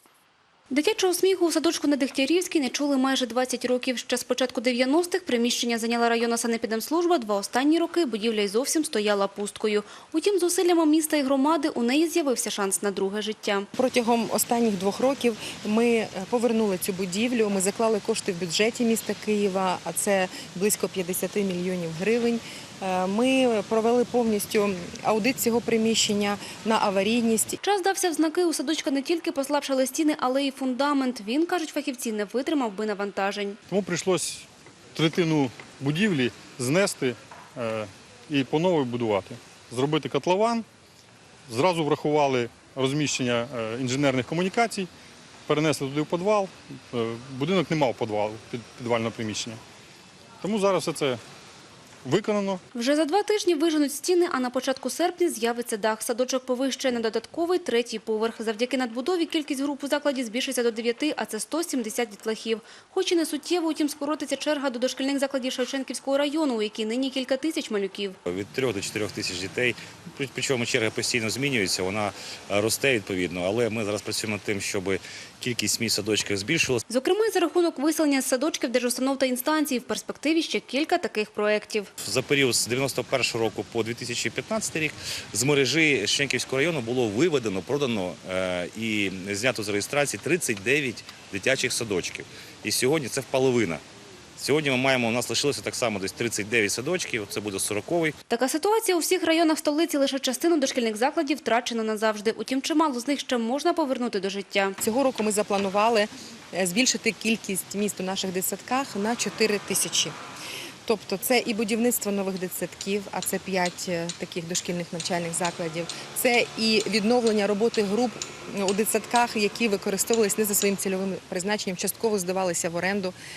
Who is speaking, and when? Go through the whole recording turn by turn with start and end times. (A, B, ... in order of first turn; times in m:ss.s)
0:00.7-0:13.7 A
0:13.7-0:27.6 B
0:27.6-0:33.6 A
0:33.7-0:40.6 C
0:41.5-0:44.9 C
0:45.5-0:49.6 C
0:50.4-0:51.2 C
0:52.0-0:52.6 C
0:52.7-1:08.2 A
1:08.3-1:16.8 D
1:16.9-1:21.9 A
1:22.0-1:33.8 D
1:34.4-1:38.1 D
1:38.3-1:44.8 A
1:44.8-1:50.1 B
1:50.8-2:03.1 B